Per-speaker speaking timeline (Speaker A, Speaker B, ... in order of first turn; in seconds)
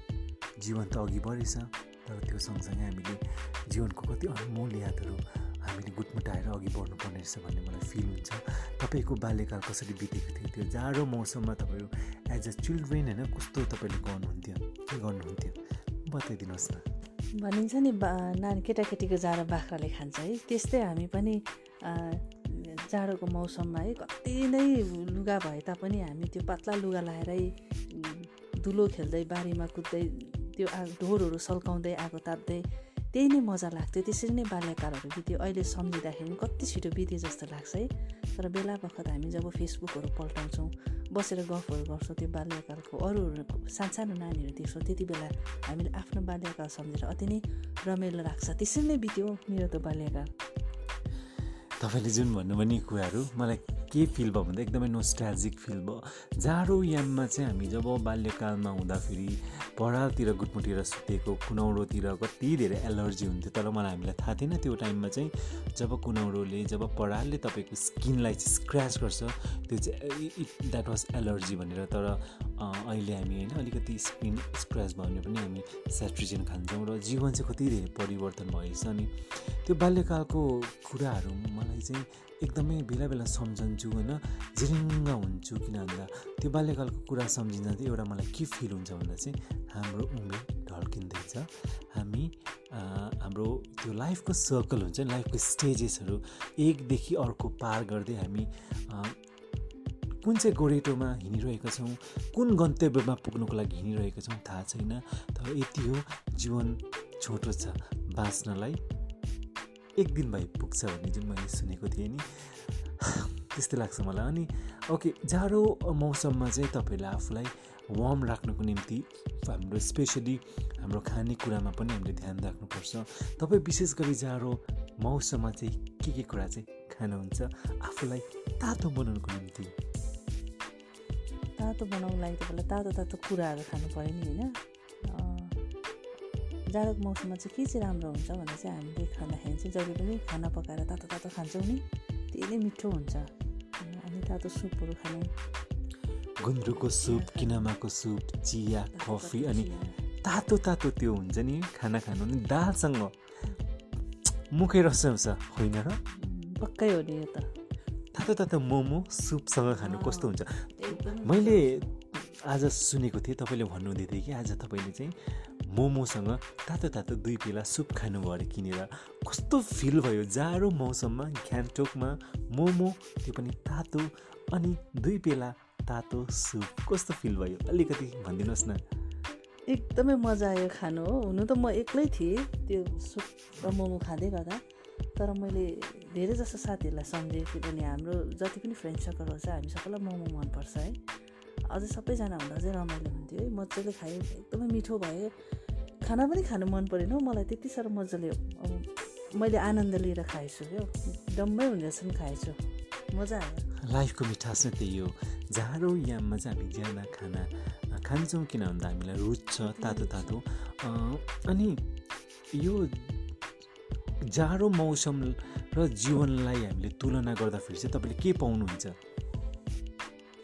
Speaker A: 0.6-16.9, 51.8-99.2, 100.2-108.8, 110.0-129.7, 146.4-149.7, 150.2-153.2, 154.5-156.0, 158.1-178.8, 203.9-211.8, 212.5-213.2, 214.3-219.0
Speaker B: 17.4-50.3, 131.6-134.5, 135.1-135.5, 136.7-145.3, 146.8-147.7, 148.9-149.9, 156.2-157.5, 159.7-161.9, 179.7-184.6, 185.2-191.0, 191.7-195.3, 196.0-202.6, 203.1-203.7, 209.6-210.4